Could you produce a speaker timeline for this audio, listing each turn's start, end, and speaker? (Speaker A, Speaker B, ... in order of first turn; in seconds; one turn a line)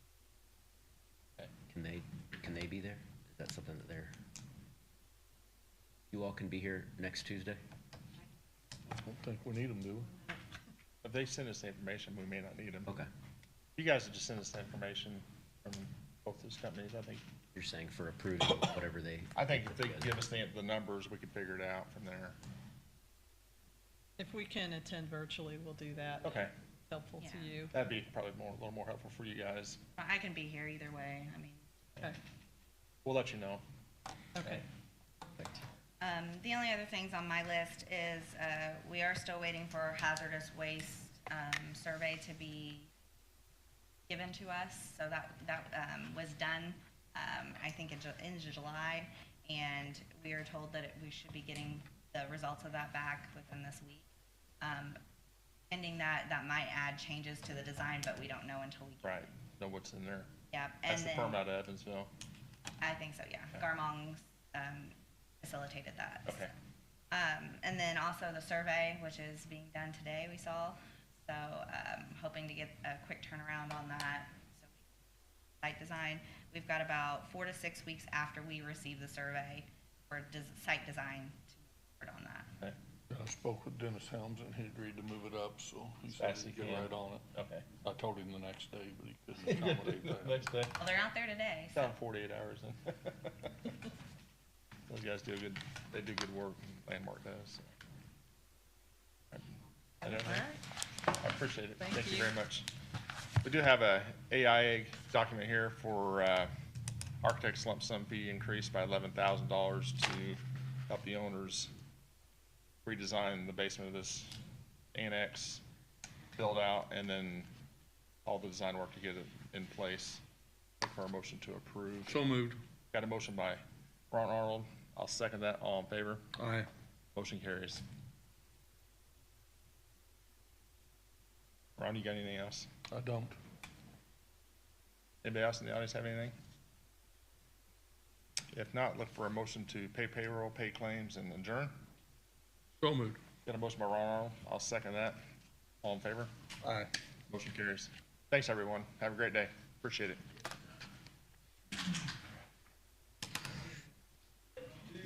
Speaker A: 1.7-4.1
Speaker A: 6.1-7.6
Speaker B: 9.1-10.1
Speaker C: 11.0-12.9
Speaker C: 13.8-17.2
Speaker A: 17.6-20.2
Speaker C: 19.4-22.4
Speaker D: 24.2-26.4
Speaker C: 26.2-26.5
Speaker D: 26.9-27.7
Speaker E: 27.2-27.6
Speaker C: 27.7-29.8
Speaker E: 30.0-31.7
Speaker C: 33.0-33.6
Speaker D: 34.4-34.6
Speaker E: 36.0-42.9
Speaker E: 44.1-54.1
Speaker E: 54.6-55.0
Speaker E: 55.7-59.3
Speaker C: 59.0-60.3
Speaker E: 60.5-61.4
Speaker C: 60.9-62.1
Speaker E: 62.8-66.5
Speaker E: 67.1-74.7
Speaker E: 75.6-82.5
Speaker B: 83.1-87.2
Speaker C: 86.1-87.7
Speaker B: 87.8-90.3
Speaker C: 89.5-90.8
Speaker E: 90.8-91.9
Speaker C: 91.8-93.7
Speaker C: 94.9-97.7
Speaker C: 99.3-100.5
Speaker D: 100.0-100.6
Speaker C: 101.2-102.7
Speaker D: 101.8-102.3
Speaker C: 103.4-106.5
Speaker C: 107.2-111.7
Speaker C: 112.8-114.4
Speaker C: 114.9-115.6
Speaker C: 116.4-117.5
Speaker C: 118.2-120.2
Speaker C: 120.8-122.2
Speaker B: 122.1-122.6
Speaker C: 122.9-126.2
Speaker B: 126.4-126.7
Speaker C: 127.2-127.8
Speaker C: 131.8-132.7
Speaker B: 132.9-133.4
Speaker C: 135.2-136.3
Speaker C: 138.5-141.8
Speaker B: 142.8-143.2
Speaker C: 143.4-145.2
Speaker C: 145.8-146.3
Speaker B: 146.7-146.9
Speaker C: 147.3-150.2